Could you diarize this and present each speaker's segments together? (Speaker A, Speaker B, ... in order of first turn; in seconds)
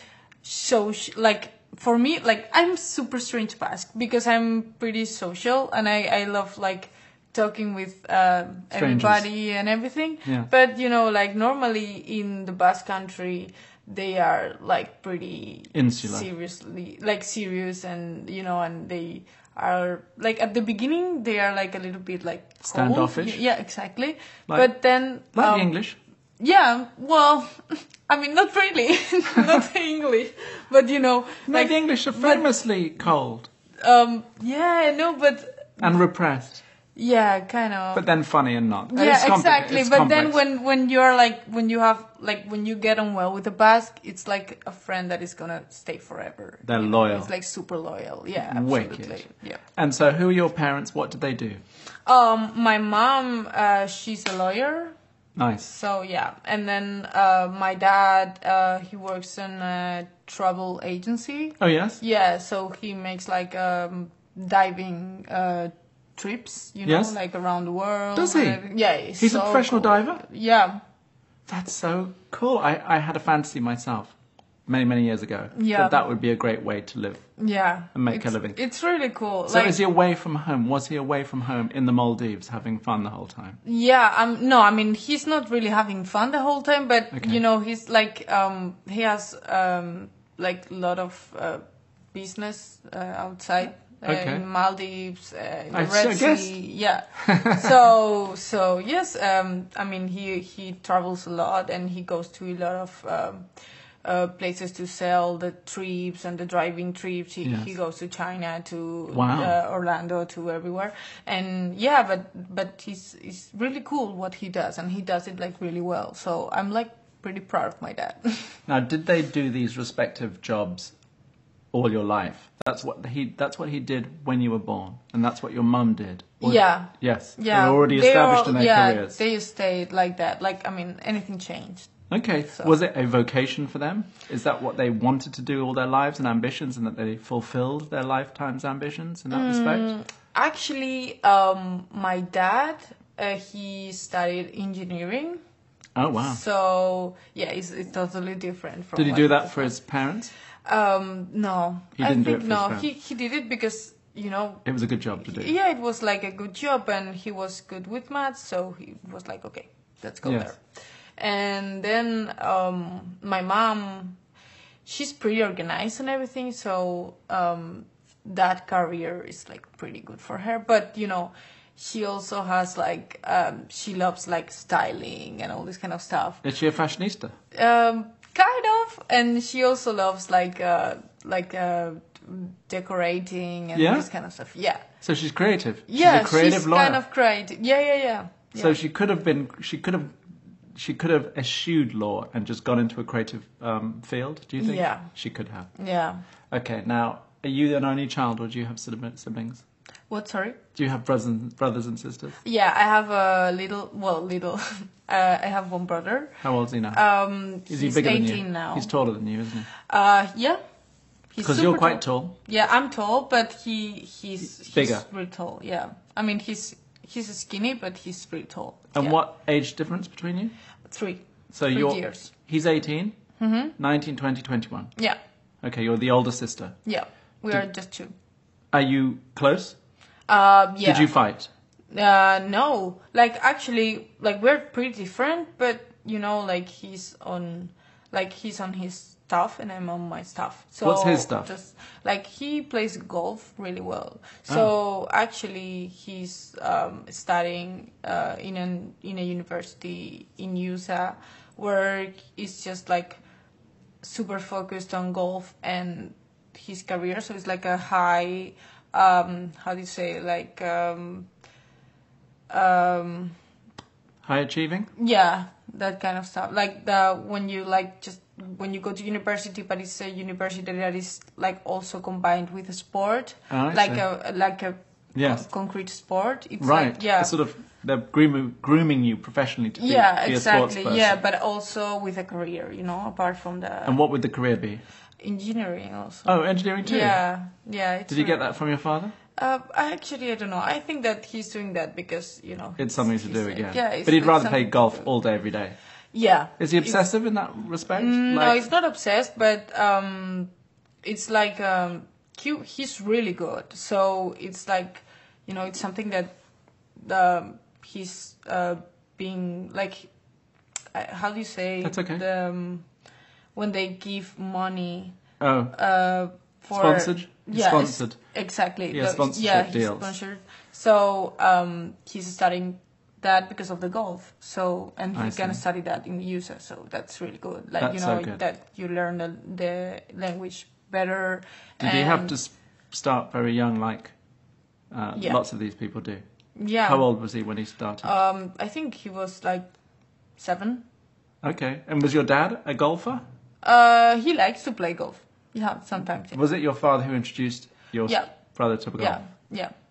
Speaker A: 0.4-25.7, 26.4-32.5, 33.8-36.0, 37.0-38.0, 38.9-49.6, 52.1-55.0, 55.6-70.8, 75.5-76.0, 77.4-79.8, 83.6-103.5, 104.0-118.6, 126.4-131.9, 139.3-145.4, 146.2-149.8, 150.7-160.6, 161.2-164.2, 164.8-176.4, 177.5-184.8, 185.9-188.8, 194.6-195.1, 195.8-196.2, 200.1-200.6, 202.4-206.4, 206.9-208.9, 209.8-210.6, 211.3-219.2, 220.9-222.3, 223.4-223.8, 226.9-228.1, 230.3-231.1, 231.9-253.2, 254.0-261.3, 262.5-263.4, 265.0-277.4, 279.8-284.0, 285.2-288.4, 289.4-295.1, 296.1-297.1, 297.9-300.5, 301.0-306.3, 307.0-310.1, 310.9-312.9, 313.6-315.2, 315.7-332.4, 336.6-337.1, 338.0-339.7, 340.4-340.9, 343.6-346.4, 348.1-348.3, 349.0-349.7
Speaker B: 8.7-9.3, 15.7-16.3, 22.6-23.4, 24.5-24.7, 25.3-26.0, 31.5-33.5, 35.8-36.6, 37.9-40.4, 46.6-47.3, 48.4-51.6, 55.4-55.7, 61.6-62.0, 66.9-67.2, 68.2-68.6, 69.2-70.2, 71.5-74.1, 74.7-77.3, 77.9-78.6, 79.5-83.6, 87.1-87.4, 94.0-94.4, 95.7-96.6, 97.2-97.7, 109.1-109.5, 118.7-120.9, 121.7-129.2, 132.1-139.9, 145.9-146.4, 148.9-150.3, 152.0-152.9, 154.7-155.5, 160.2-160.5, 176.4-177.3, 183.8-184.1, 185.0-187.0, 188.6-190.2, 190.7-195.7, 196.5-199.6, 200.8-202.4, 206.4-207.0, 207.7-209.7, 211.4-212.3, 214.7-215.1, 218.9-220.5, 221.5-223.2, 223.8-224.9, 225.6-226.8, 228.7-229.8, 230.8-231.5, 240.8-241.5, 264.2-264.9, 273.5-274.0, 275.1-275.4, 276.6-281.2, 283.9-284.8, 286.3-287.2, 288.1-289.1, 292.8-295.8, 296.6-298.6, 311.8-312.2, 315.4-315.8, 316.8-318.2, 318.9-320.1, 325.1-325.6, 327.8-328.4, 331.8-334.1, 334.9-336.2, 336.9-338.1, 341.4-343.2, 346.3-349.2